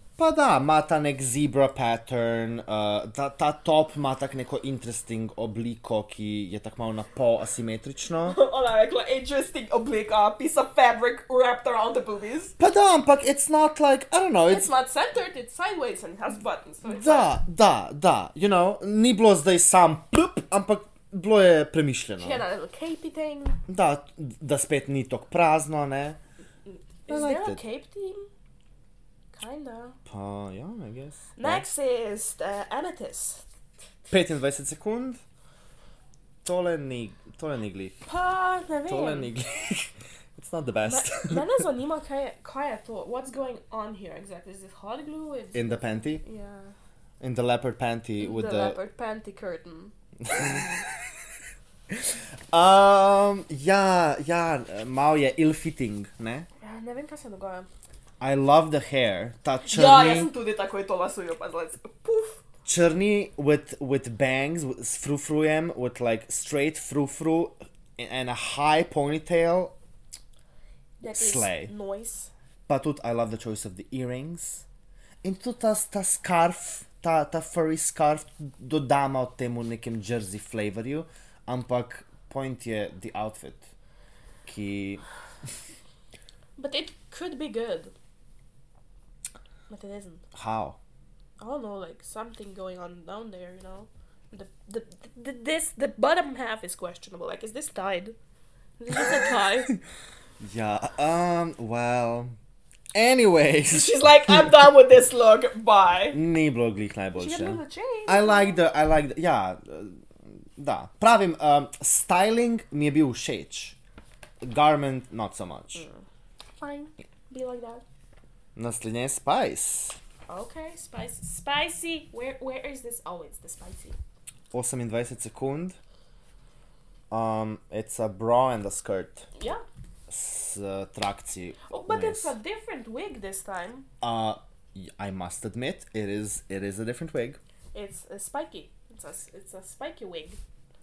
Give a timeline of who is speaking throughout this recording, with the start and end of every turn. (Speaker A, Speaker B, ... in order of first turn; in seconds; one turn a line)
Speaker A: 0.2-8.4
Speaker B: 8.2-12.5
Speaker A: 12.6-14.7
Speaker B: 14.5-17.4
Speaker A: 16.8-22.4
Speaker B: 22.2-23.6
Speaker A: 23.7-26.2
Speaker B: 26.7-28.3
Speaker A: 27.1-27.6
Speaker B: 29.3-30.0
Speaker A: 30.1-31.6
Speaker B: 31.4-33.4
Speaker A: 34.1-35.2
Speaker A: 36.4-38.0
Speaker B: 38.0-39.3
Speaker A: 38.9-41.6
Speaker B: 40.8-46.7
Speaker A: 45.5-46.2
Speaker A: 47.2-48.8
Speaker B: 48.2-50.7
Speaker A: 50.2-50.8
Speaker A: 51.9-56.5
Speaker B: 56.6-57.7
Speaker A: 58.2-60.3
Speaker B: 59.6-62.4
Speaker A: 62.6-69.7
Speaker B: 71.0-72.3
Speaker A: 71.1-71.7
Speaker A: 72.7-74.6
Speaker A: 75.2-83.7
Speaker A: 84.5-85.0
Speaker B: 86.6-87.9
Speaker B: 89.7-90.2
Speaker A: 90.3-90.8
Speaker B: 91.4-98.2
Speaker B: 98.8-99.8
Speaker A: 100.4-102.3
Speaker A: 102.9-104.5
Speaker B: 103.7-106.2
Speaker A: 106.1-113.8
Speaker B: 107.1-108.6
Speaker A: 114.4-115.8
Speaker B: 115.7-116.0
Speaker B: 116.6-117.8
Speaker A: 118.5-120.0
Speaker B: 120.3-124.0
Speaker A: 124.5-125.8
Speaker A: 127.1-129.3
Speaker B: 129.4-129.6
Speaker A: 130.1-132.3
Speaker B: 131.7-133.9
Speaker A: 134.0-137.4
Speaker B: 137.7-140.4